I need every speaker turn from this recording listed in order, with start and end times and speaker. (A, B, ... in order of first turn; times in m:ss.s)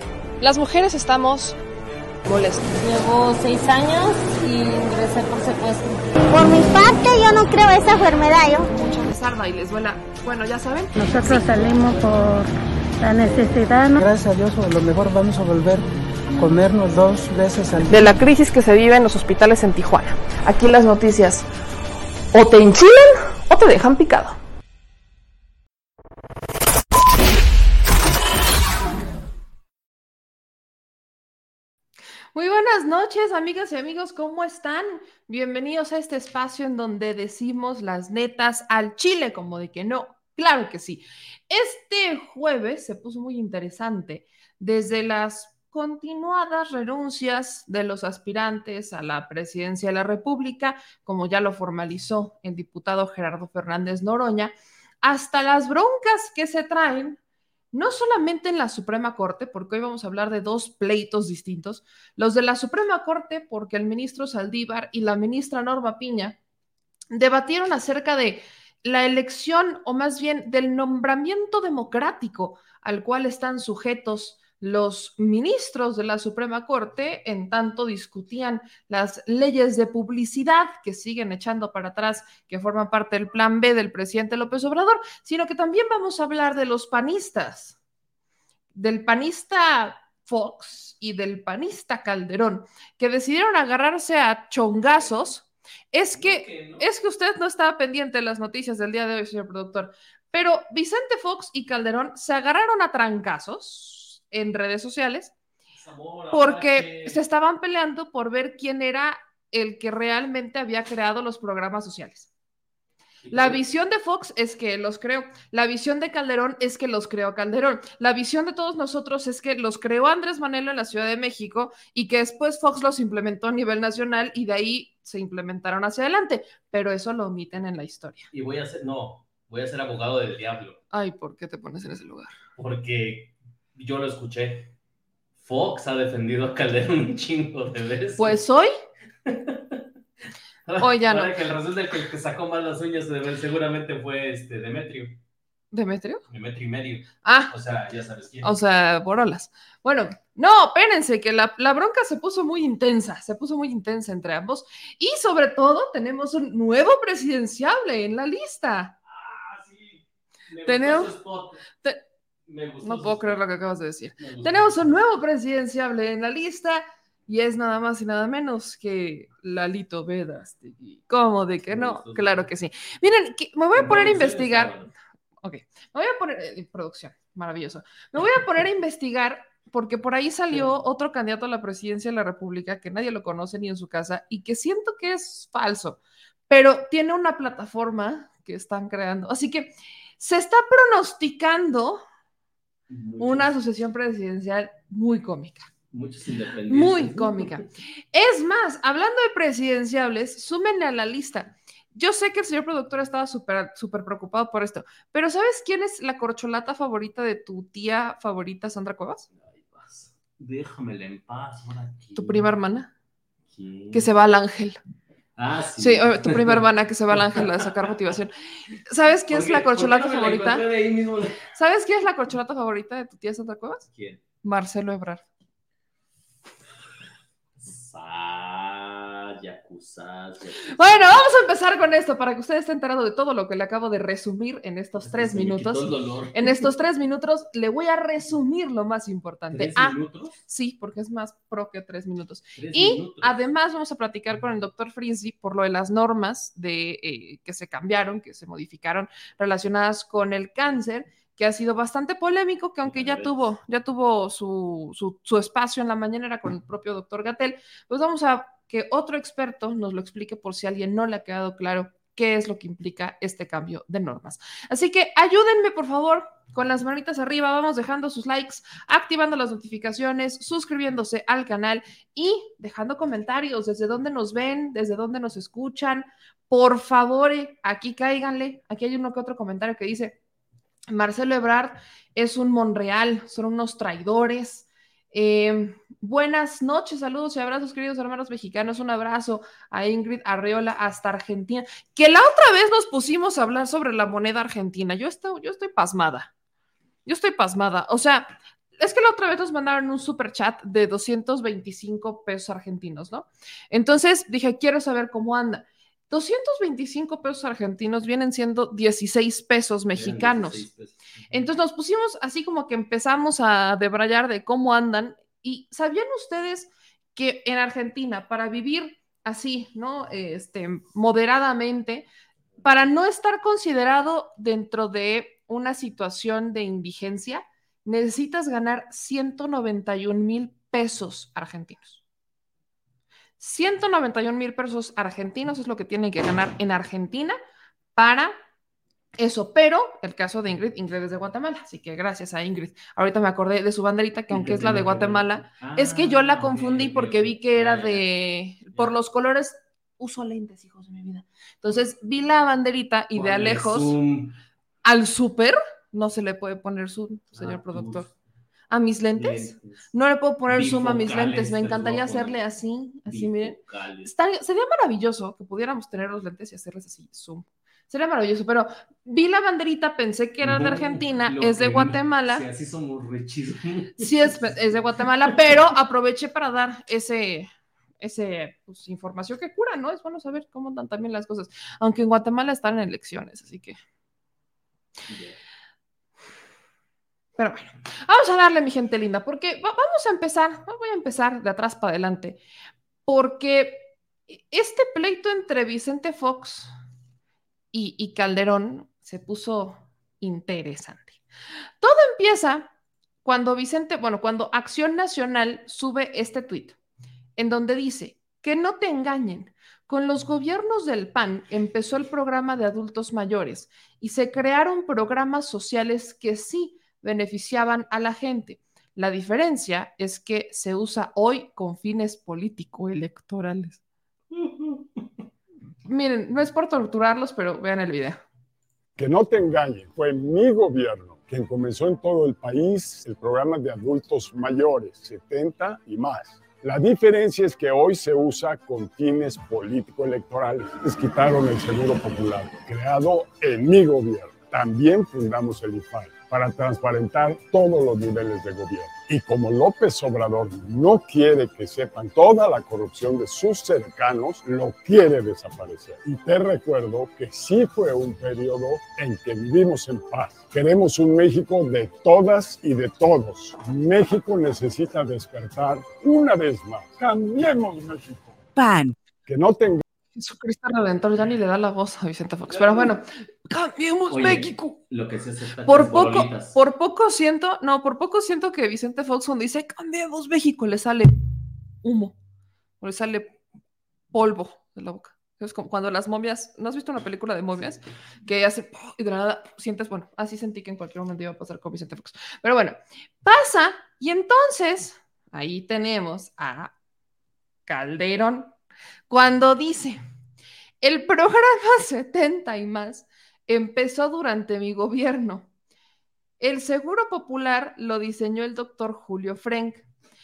0:00.4-0:01.6 A
0:02.3-0:02.7 A
0:02.7-0:06.1 B
0:06.3-0:08.7 C
0:08.7-0:11.4 A
0:11.0-0:14.0 D
0:14.0-0:18.1 E
0:17.9-0:21.4 A
0:22.3-0:24.4 A
0:32.3-0:57.2 A
0:57.7-1:06.4 A
1:07.1-1:27.8 A
1:28.8-1:45.3 A
1:36.1-1:36.8 F
1:45.8-1:47.2 F
1:46.3-1:52.3 A
1:53.2-1:53.6 F
1:53.3-2:08.3 A
2:08.3-2:10.8 F
2:10.9-2:12.3 A
2:12.6-2:14.7 F
2:15.4-2:18.4 F
2:18.2-2:18.7 A
2:19.3-2:19.8 F
2:20.7-2:25.2 F
2:20.8-2:21.3 A
2:25.7-2:26.2 A
2:26.3-2:28.6 F
2:27.2-2:27.5 A
2:28.4-2:39.0 A
2:39.1-2:41.6 F
2:40.6-2:41.2 A
2:42.5-2:43.4 F
2:42.8-2:54.7 A
2:44.2-2:44.9 F
2:51.7-2:52.5 F
2:53.8-2:54.9 F
2:55.4-3:12.0 A
3:12.9-3:13.5 F
3:13.2-3:15.7 A
3:15.9-3:17.6 F
3:16.7-3:29.3 A
3:29.4-3:32.5 F
3:32.2-3:32.9 A
3:33.5-3:34.1 F
3:33.9-3:34.8 A
3:35.4-3:37.9 F
3:35.8-3:38.3 A
3:38.9-3:40.7 A
3:39.3-3:41.4 F
3:41.5-3:43.9 A
3:44.0-3:44.2 F
3:44.4-3:45.2 A
3:47.6-3:51.0 F
3:50.7-4:40.2 A
3:55.0-3:56.5 F
3:59.5-4:00.4 F
4:02.6-4:03.4 F
4:12.8-4:13.5 F
4:40.9-4:56.3 A
4:57.1-5:10.7 A
5:10.0-5:11.4 F
5:11.3-5:22.1 A
5:22.6-5:32.0 A
5:33.4-5:37.4 A
5:38.0-5:38.4 A
5:39.2-5:54.0 A
5:44.3-5:48.0 F
5:53.1-5:54.3 F
5:54.8-5:58.1 A
5:57.4-5:58.1 F
5:58.7-6:12.4 A
5:59.2-5:59.8 F
6:00.5-6:02.4 F
6:03.1-6:04.1 F
6:10.4-6:14.4 F
6:14.0-6:17.5 A
6:18.0-6:23.8 A
6:25.1-6:25.4 F
6:27.4-6:32.4 A
6:33.1-6:36.7 A
6:37.7-6:41.2 A
6:41.8-6:42.7 A
6:43.2-6:46.8 A
6:47.4-7:03.8 A
7:04.4-7:04.8 F
7:05.9-7:08.2 A
7:09.0-7:48.4 G
7:49.3-7:49.8 G
7:50.2-7:54.8 A
7:52.5-7:52.9 F
7:54.1-7:56.6 F
7:55.6-8:01.2 A
8:01.8-8:02.2 A
8:02.8-8:03.3 A
8:04.1-8:16.7 A
8:17.7-8:18.5 A
8:19.1-8:20.0 A
8:20.8-8:25.5 A
8:26.4-8:29.8 A